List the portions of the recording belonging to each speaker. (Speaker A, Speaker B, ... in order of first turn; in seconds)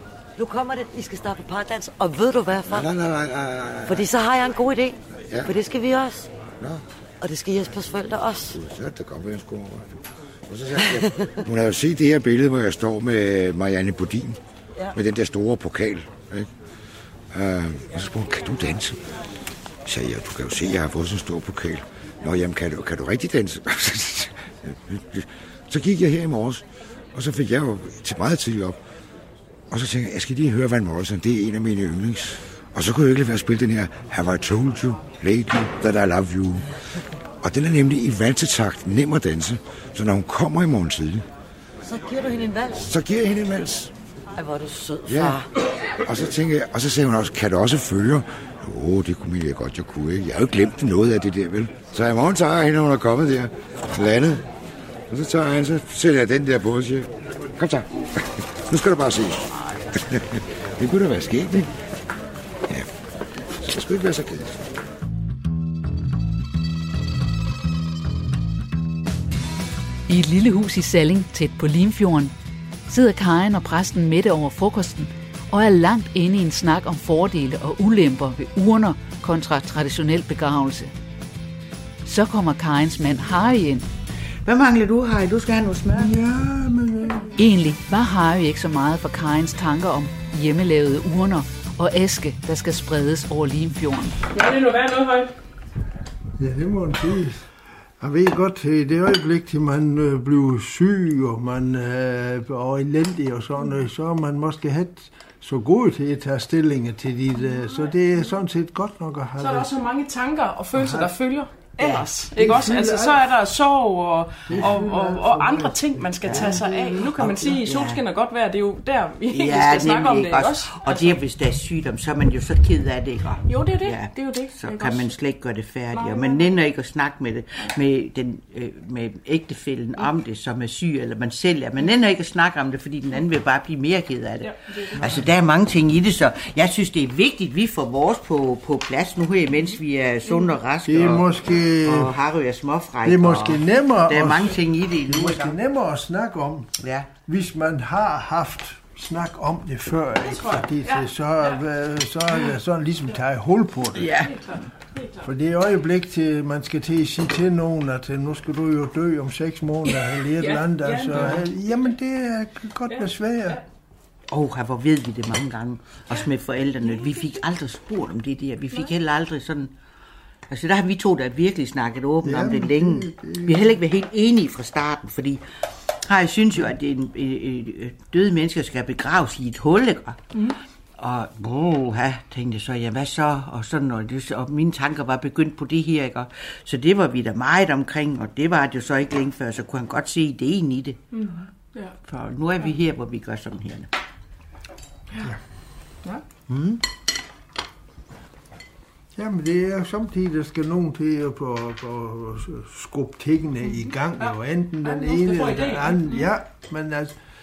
Speaker A: 0.4-2.9, 3.9-6.3, 7.2-8.6, 41.9-42.9, 44.4-45.5
Speaker B: 2.7-4.1, 5.3-5.5, 6.6-6.8, 8.5-14.4, 14.9-16.5, 17.3-19.0, 19.9-28.8, 29.7-36.7, 37.4-41.3, 42.8-43.9, 45.1-45.4, 45.9-54.5, 55.1-61.8, 62.6-62.9, 63.5-64.6
Speaker C: 70.1-72.3, 72.9-80.9, 82.0-83.8, 87.4-94.2
Speaker D: 84.5-86.1, 111.8-112.1, 116.3-118.0, 119.3-145.6, 146.8-147.1, 153.9-154.3, 164.3-169.7, 170.5-175.4, 176.0-180.3, 181.0-191.0, 192.1-193.9, 196.5-196.8
Speaker E: 85.9-87.3, 96.4-109.7, 110.7-111.2, 112.3-113.3, 114.5-117.1, 135.0-135.2, 140.8-142.2, 143.0-146.7, 147.2-154.1, 155.2-163.6, 172.2-173.7, 199.1-207.2
Speaker F: 94.3-95.3, 109.4-121.2, 123.5-125.2, 125.9-126.6, 134.4-135.2, 140.2-140.5, 150.2-151.6, 154.0-155.3, 159.9-161.9, 162.9-163.6, 166.9-167.2, 191.1-192.0, 203.7-206.3